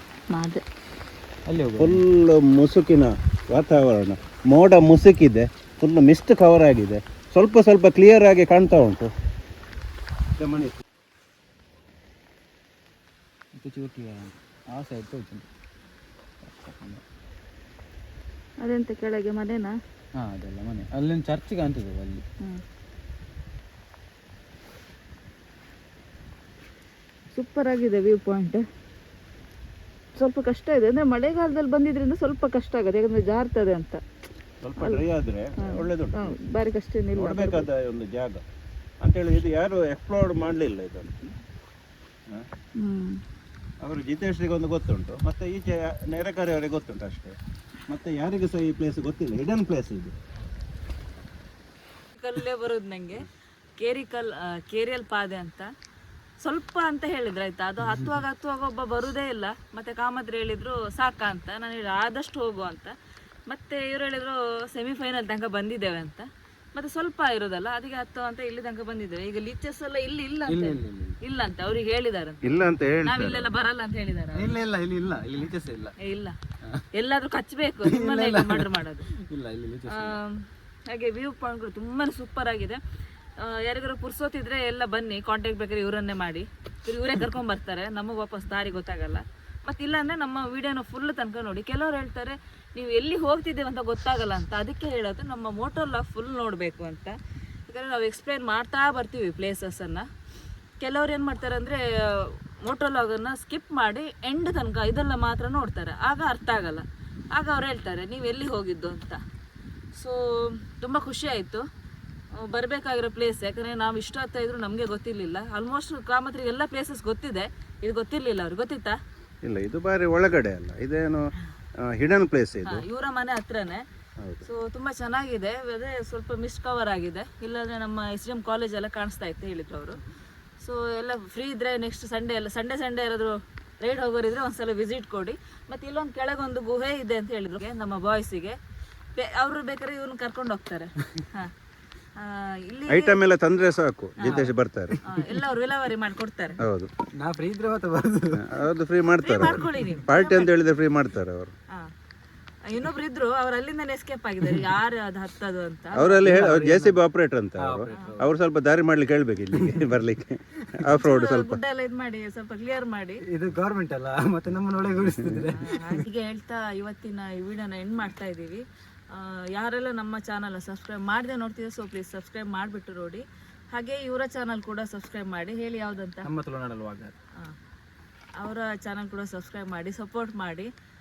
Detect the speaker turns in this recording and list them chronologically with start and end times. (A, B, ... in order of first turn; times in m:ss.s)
0:00.3-0:00.6 A
0:01.5-0:02.0 B
0:01.8-0:09.1 C
0:10.4-0:10.8 C
0:13.6-0:15.4 B
0:16.4-0:17.0 B
0:18.6-0:19.7 A
0:20.2-0:22.2 B
0:27.3-0:28.6 A
0:30.2-0:34.0 A
0:34.6-0:36.4 C
0:34.8-0:35.0 A
0:35.6-0:37.6 A
0:37.2-0:38.4 C
0:39.0-0:41.3 C
0:42.8-0:43.2 A
0:43.8-0:47.4 C
0:47.9-0:50.1 C
0:52.2-0:53.3 A
0:53.8-0:55.7 A
0:56.4-1:02.9 A
1:03.5-1:12.4 A
1:10.5-1:11.2 B
1:12.4-1:13.5 C
1:13.0-1:14.6 A
1:14.3-1:15.9 B
1:16.0-1:16.4 A
1:16.9-1:19.1 A
1:17.8-1:20.2 B
1:19.9-1:22.8 A
1:23.4-1:40.1 A
1:40.8-1:49.2 A
1:50.0-1:51.6 A
1:52.3-1:59.0 A
1:59.4-2:01.2 C
2:01.8-2:02.8 C
2:02.6-2:03.8 A
2:04.4-2:10.0 A
2:10.6-2:18.6 A
2:19.2-2:21.5 A
2:22.2-2:23.2 A
2:22.9-2:25.0 C
2:24.2-2:24.4 A
2:24.2-2:25.0 B
2:25.0-2:26.6 A
2:26.6-2:26.9 C
2:27.2-2:28.5 B
2:28.3-2:31.5 C
2:29.2-2:30.5 A
2:32.6-2:36.4 A
2:35.9-2:41.6 C
2:36.2-2:37.0 B
2:37.6-2:38.3 B
2:39.5-2:39.8 B
2:41.0-2:43.2 A
2:43.2-2:46.0 B
2:45.6-2:56.3 A
2:56.2-2:57.1 B
2:58.4-3:00.7 A